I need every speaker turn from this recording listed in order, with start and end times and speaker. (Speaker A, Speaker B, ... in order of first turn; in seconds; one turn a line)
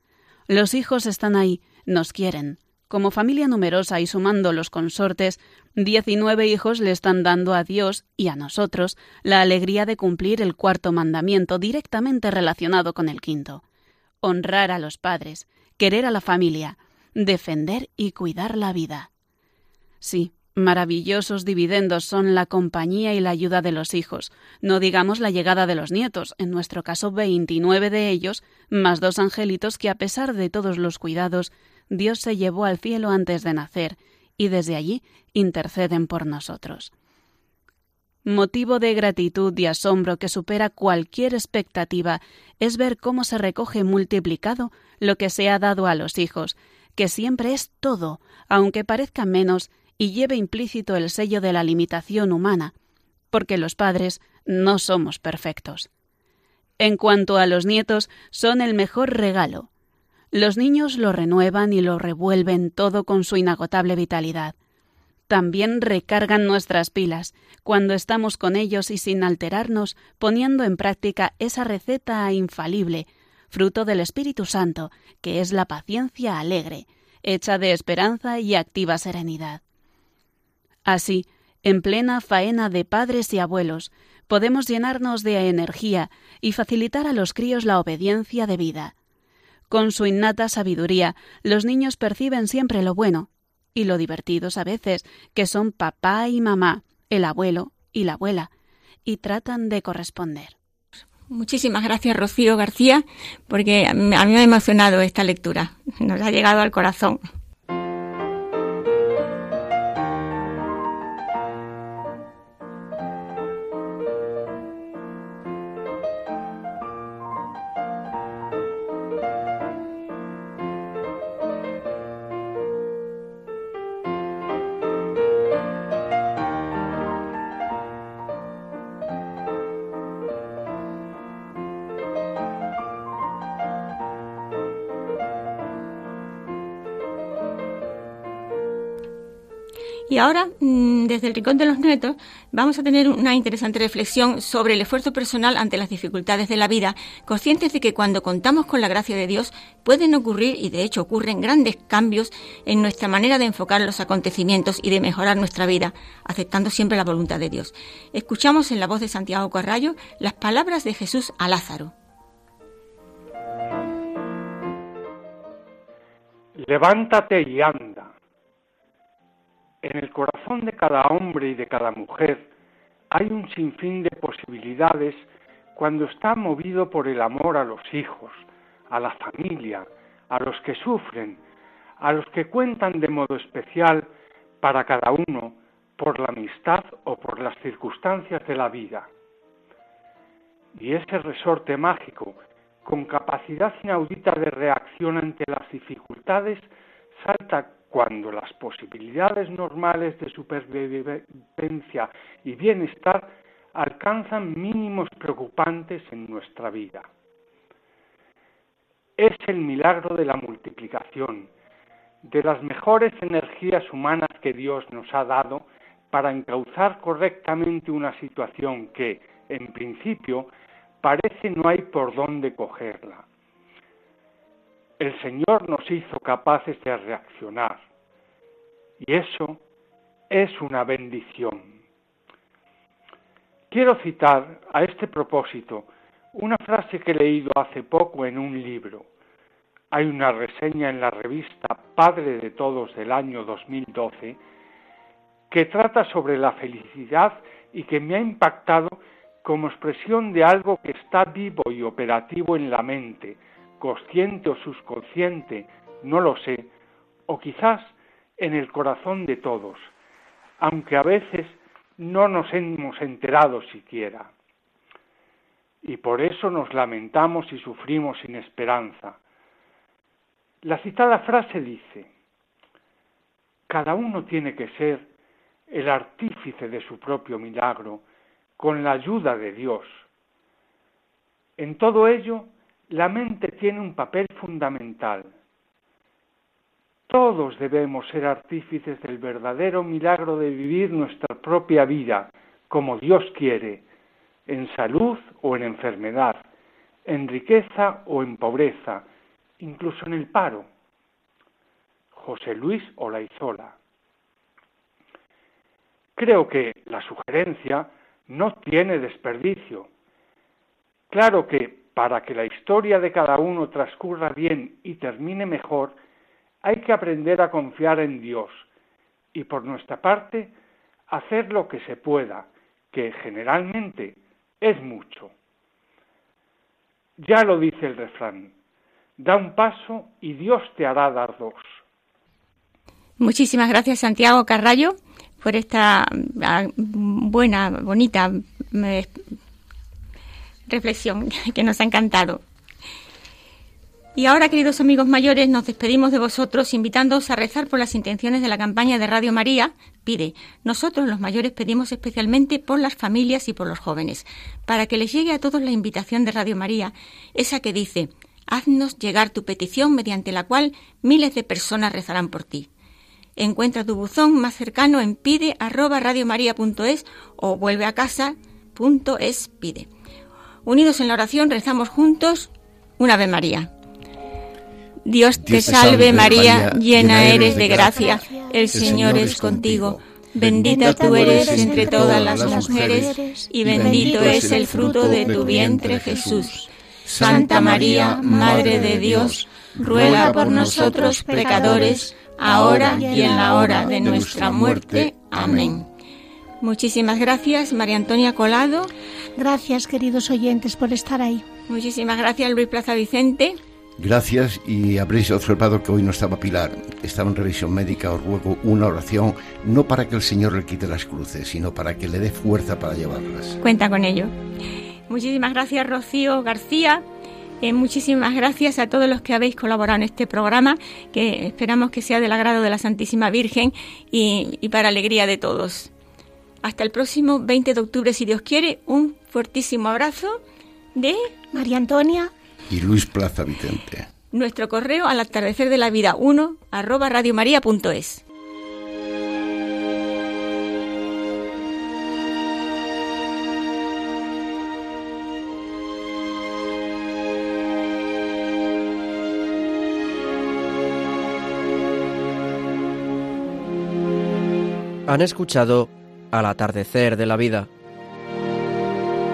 Speaker A: 0.5-13.6
Speaker A: 14.2-19.1
Speaker A: 20.0-36.9
Speaker A: 38.2-52.7
Speaker A: 53.3-55.9
Speaker A: 56.8-59.7
Speaker A: 60.3-64.5
Speaker A: 65.3-79.6
Speaker A: 80.8-88.9
Speaker A: 89.7-98.5
Speaker A: 99.0-100.5
Speaker B: 101.3-107.2
Speaker B: 140.1-161.9
Speaker C: 166.6-168.1
Speaker C: 169.8-172.4
Speaker C: 173.1-181.4
Speaker C: 182.0-184.1
Speaker C: 184.6-189.1
Speaker C: 190.7-207.1
Speaker C: 209.2-211.5
Speaker C: 212.2-220.5
Speaker C: 221.0-223.2
Speaker C: 225.0-227.8
Speaker C: 229.0-229.6
Speaker C: 230.3-231.7
Speaker C: 233.7-239.1
Speaker C: 239.9-244.4
Speaker C: 245.5-256.7
Speaker C: 257.3-259.9
Speaker C: 260.6-264.3
Speaker C: 265.8-269.2
Speaker C: 270.6-272.1
Speaker C: 273.7-275.1
Speaker C: 275.7-278.0
Speaker C: 278.6-280.0
Speaker C: 281.6-285.3
Speaker C: 287.1-293.8
Speaker C: 294.5-296.4
Speaker C: 297.1-299.1
Speaker C: 299.6-300.7
Speaker C: 302.1-303.8
Speaker C: 306.1-309.9
Speaker C: 311.1-316.0
Speaker C: 316.6-318.6
Speaker C: 319.3-320.5
Speaker C: 321.1-325.3
Speaker C: 327.2-328.5
Speaker C: 329.2-331.7
Speaker B: 333.2-339.2
Speaker B: 340.7-342.4
Speaker B: 344.1-362.7
Speaker B: 363.4-369.9
Speaker B: 370.6-373.7
Speaker B: 375.1-386.6
Speaker D: 375.4-395.9
Speaker E: 375.5-379.5
Speaker E: 380.6-386.4
Speaker B: 387.2-395.9
Speaker E: 387.2-389.3
Speaker E: 389.8-394.5
Speaker B: 396.6-398.9
Speaker E: 399.4-401.4
Speaker B: 401.7-403.6
Speaker D: 404.0-413.6
Speaker B: 413.6-414.3
Speaker B: 415.1-417.0
Speaker B: 417.6-425.9
Speaker B: 426.6-430.4
Speaker B: 430.9-431.3
Speaker E: 431.5-432.3
Speaker D: 432.7-434.1
Speaker B: 434.3-438.2
Speaker F: 455.1-457.7